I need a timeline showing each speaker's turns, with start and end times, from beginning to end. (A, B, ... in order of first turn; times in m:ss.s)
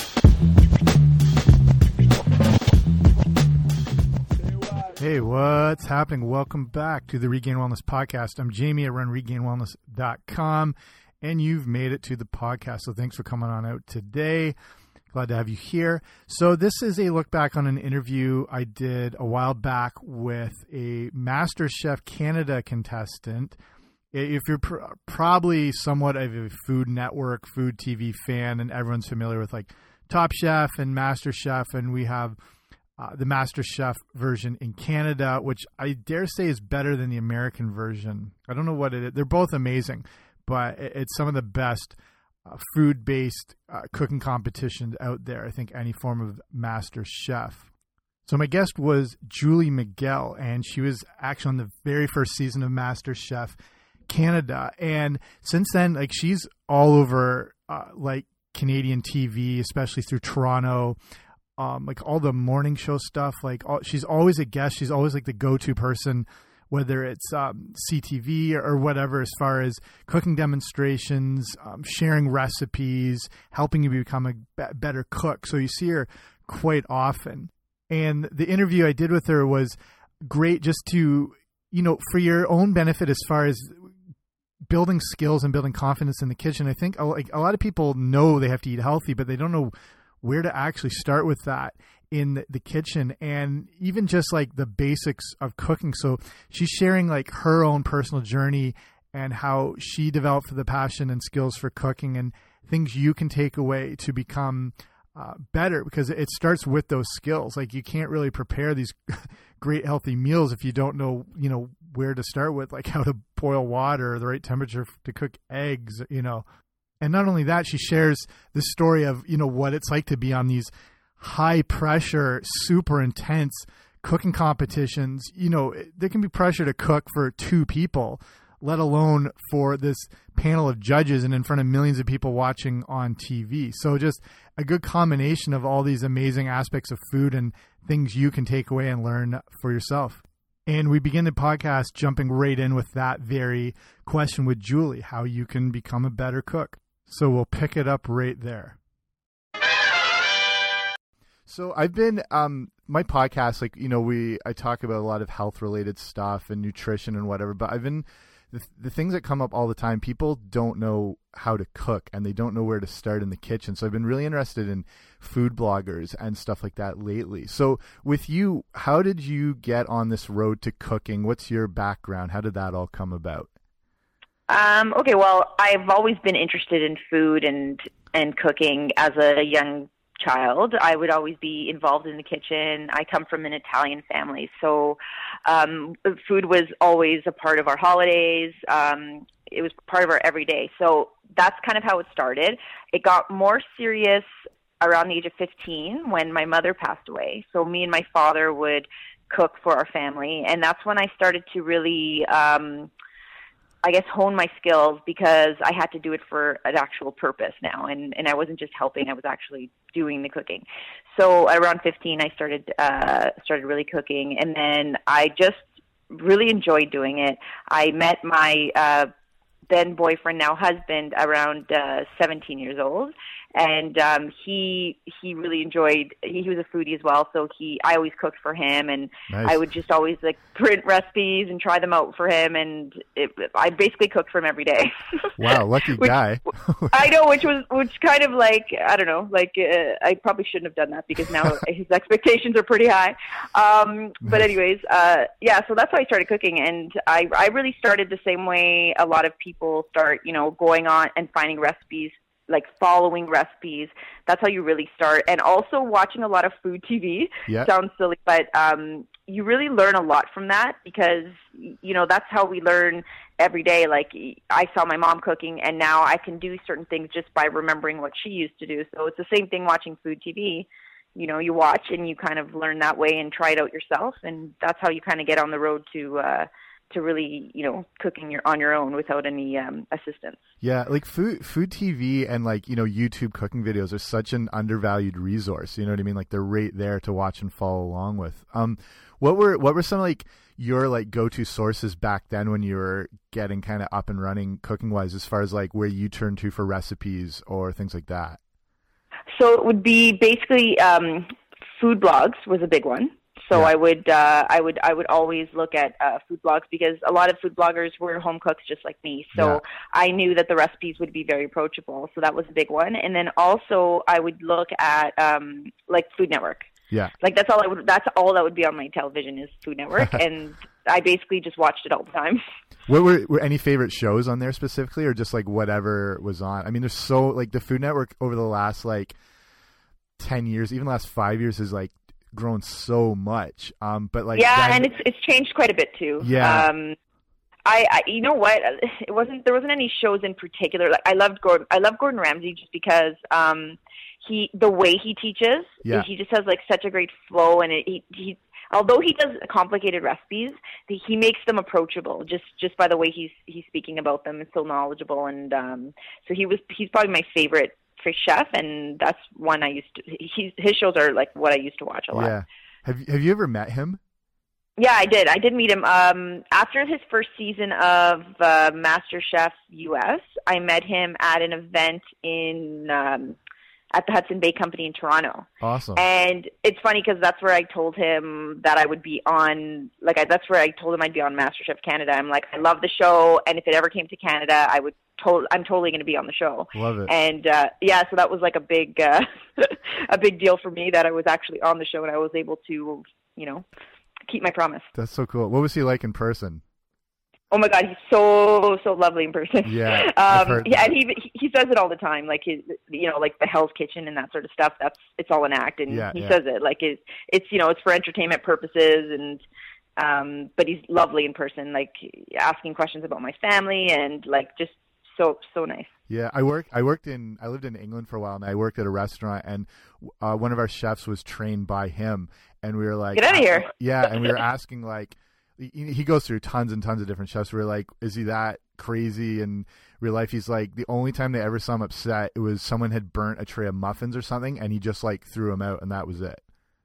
0:05.0-0:14.6 A
0:15.1-0:23.6 A
0:24.1-0:32.4 A
0:33.0-0:47.7 A
0:48.3-0:53.6 A
0:54.1-1:01.0 A
1:01.6-1:23.9 A
1:24.7-1:56.4 A
1:57.0-2:28.8 A
2:31.5-2:53.5 A
2:54.5-3:14.2 B
3:14.8-3:22.9 B
3:23.8-3:39.1 B
3:39.7-3:55.4 B
3:49.3-3:49.6 A
3:55.4-3:57.1 A
3:56.9-4:40.4 B
4:40.6-4:58.4 A
4:59.3-5:16.7 B
5:09.4-5:09.6 A
5:17.2-5:22.4 B
5:22.9-5:29.2 A
5:30.2-5:34.9 A
5:34.4-5:37.0 B
5:36.2-5:36.7 A
5:37.7-6:02.3 B
6:02.1-6:04.0 A
6:04.8-6:13.4 B
6:13.9-6:33.6 B
6:15.6-6:16.0 A
6:26.7-6:27.1 A
6:34.3-6:34.9 B
6:34.9-6:36.6 A
6:37.5-6:49.4 B
6:39.6-6:40.9 A
6:45.9-6:46.4 A
6:50.0-6:55.9 B
6:56.1-7:16.4 A
7:03.2-7:04.4 B